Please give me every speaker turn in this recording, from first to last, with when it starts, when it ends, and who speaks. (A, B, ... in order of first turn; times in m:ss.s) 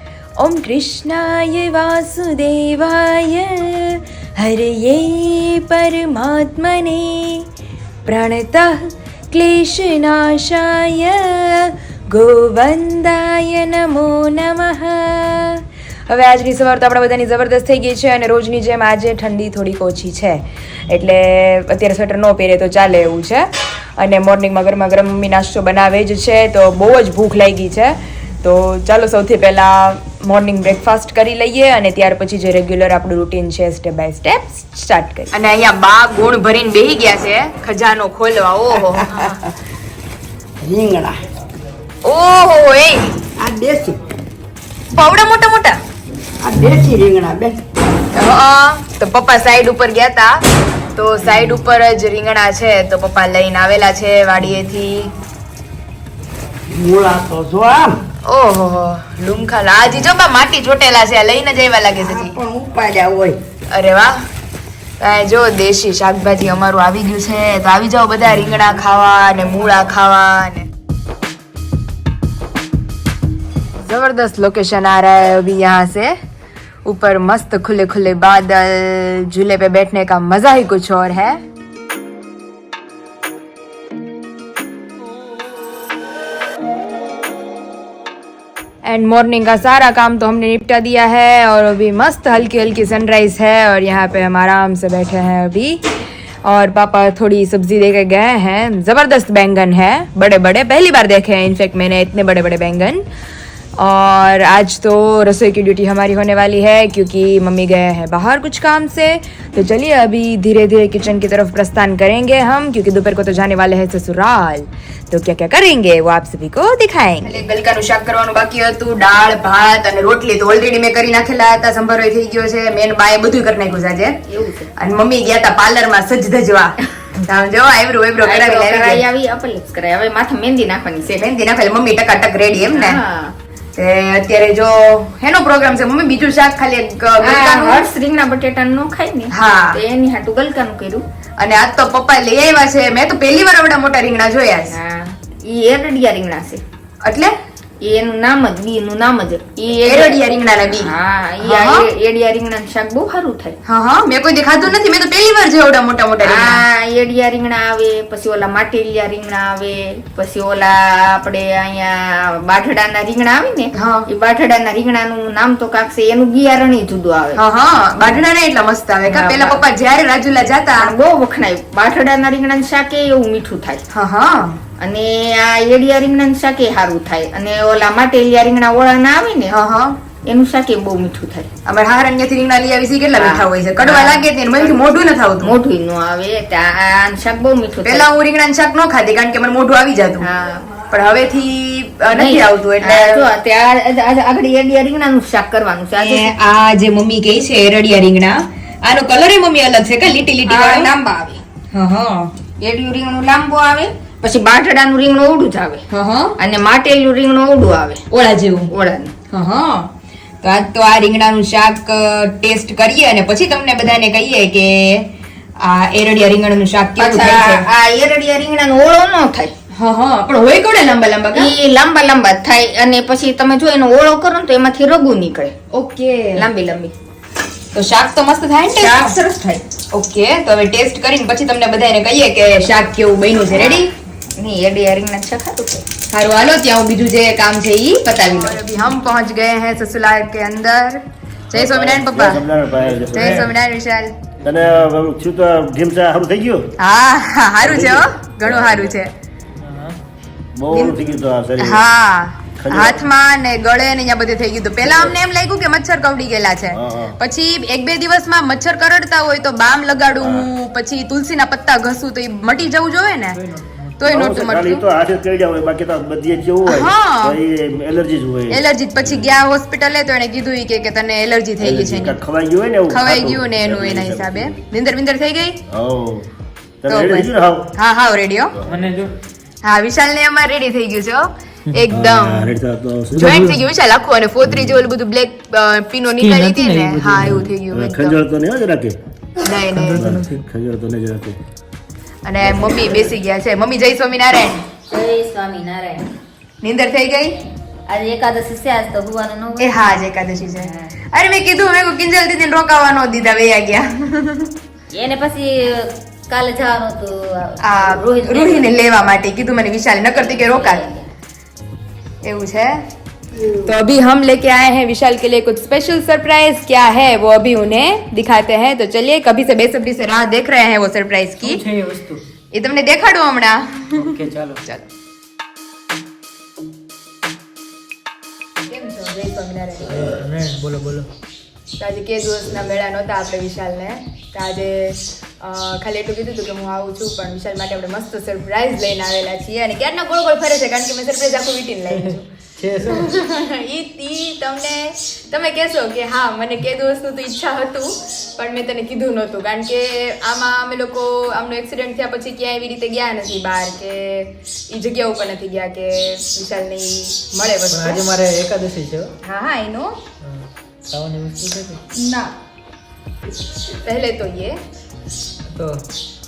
0:00.4-0:07.4 A
0:08.0-0:39.4 A
0:39.0-0:39.3 B
0:40.6-0:41.2 B
0:42.0-0:43.2 A
0:43.4-0:44.0 B
0:44.9-0:45.8 A
0:46.4-0:47.6 B
0:48.1-0:50.4 A
0:50.9-0:55.1 A
0:56.7-0:58.0 B
0:58.2-1:02.3 A
1:01.9-1:03.4 B
1:03.7-1:04.2 A
1:05.0-1:10.7 A
1:13.8-1:16.1 A
1:16.8-1:21.4 A
1:28.8-1:35.8 A
1:36.4-1:43.0 A
1:43.8-2:04.2 A
2:04.3-2:04.7 C
2:04.8-2:09.0 A
2:08.2-2:11.2 C
2:11.2-2:13.0 A
2:12.7-2:13.3 C
2:13.8-2:17.8 A
2:17.2-2:21.0 C
2:19.3-2:19.8 A
2:21.4-2:24.8 A
2:24.7-2:26.6 C
2:27.0-2:27.3 A
2:27.8-2:33.6 C
2:29.7-2:31.9 A
2:33.6-2:36.6 A
2:36.2-2:47.4 C
2:43.7-2:44.1 A
2:47.4-2:50.9 A
2:49.0-2:49.6 C
2:50.8-2:53.8 C
2:53.9-2:54.6 A
2:54.8-2:59.6 C
2:59.5-3:00.0 A
3:00.2-3:01.5 C
3:01.6-3:05.6 A
3:03.1-3:04.8 C
3:05.4-3:08.1 C
3:07.8-3:10.3 A
3:10.2-3:10.8 C
3:10.9-3:13.2 A
3:12.1-3:16.3 C
3:16.0-3:20.9 A
3:20.4-3:21.4 C
3:21.7-3:22.3 A
3:22.6-3:25.8 C
3:25.9-3:26.4 A
3:26.4-3:28.0 C
3:28.1-3:28.7 A
3:28.7-3:29.1 C
3:29.3-3:29.9 A
3:30.4-3:37.7 A
3:37.0-3:39.5 C
3:39.7-3:41.5 A
3:41.3-3:45.5 C
3:45.7-3:46.4 A
3:46.4-3:46.9 C
3:47.7-3:49.1 A
3:48.7-3:49.6 C
3:49.9-3:53.9 A
3:53.4-3:53.8 C
3:54.4-3:55.8 C
3:56.1-4:02.4 A
3:58.3-3:58.6 C
4:01.5-4:03.5 D
4:02.7-4:03.5 E
4:03.1-4:04.2 A
4:04.4-4:06.6 D
4:04.4-4:04.9 E
4:06.8-4:09.1 A
4:07.6-4:08.9 D
4:09.6-4:10.0 E
4:10.6-4:11.8 D
4:10.7-4:23.4 A
4:12.6-4:13.0 D
4:14.8-4:15.2 D
4:16.7-4:17.1 D
4:20.2-4:20.5 D
4:23.3-4:24.0 E
4:24.0-4:24.8 A
4:24.0-4:29.4 D
4:26.6-4:27.4 A
4:28.5-4:32.2 A
4:31.6-4:34.6 D
4:32.9-4:35.6 A
4:35.7-4:36.2 D
4:36.8-4:37.6 D
4:36.9-4:38.6 A
4:38.6-4:38.8 D
4:38.6-4:39.1 E
4:39.6-4:42.5 A
4:41.9-4:43.6 D
4:43.2-4:48.2 A
4:44.4-4:44.8 D
4:46.2-4:47.5 E
4:47.7-4:49.0 D
4:49.4-4:50.3 A
4:49.7-4:50.4 E
4:49.9-4:51.4 D
4:52.2-4:54.6 A
4:52.4-4:53.1 D
4:54.9-4:56.0 F
4:56.6-4:57.4 A
4:57.9-4:59.9 F
4:59.6-5:04.5 A
5:00.6-5:00.9 F
5:04.9-5:08.7 F
5:07.6-5:10.8 A
5:10.1-5:11.1 F
5:12.2-5:12.8 A
5:13.6-5:21.6 A
5:21.4-5:22.2 E
5:22.5-5:24.8 A
5:23.9-5:24.6 E
5:28.7-5:29.9 A
5:29.8-5:31.1 E
5:31.8-5:42.3 A
5:42.0-5:43.1 E
5:42.8-5:58.0 A
5:57.7-5:59.1 E
5:59.2-6:00.0 A
6:00.2-6:01.8 E
6:01.9-6:02.3 C
6:03.8-6:04.6 A
6:05.5-6:05.8 E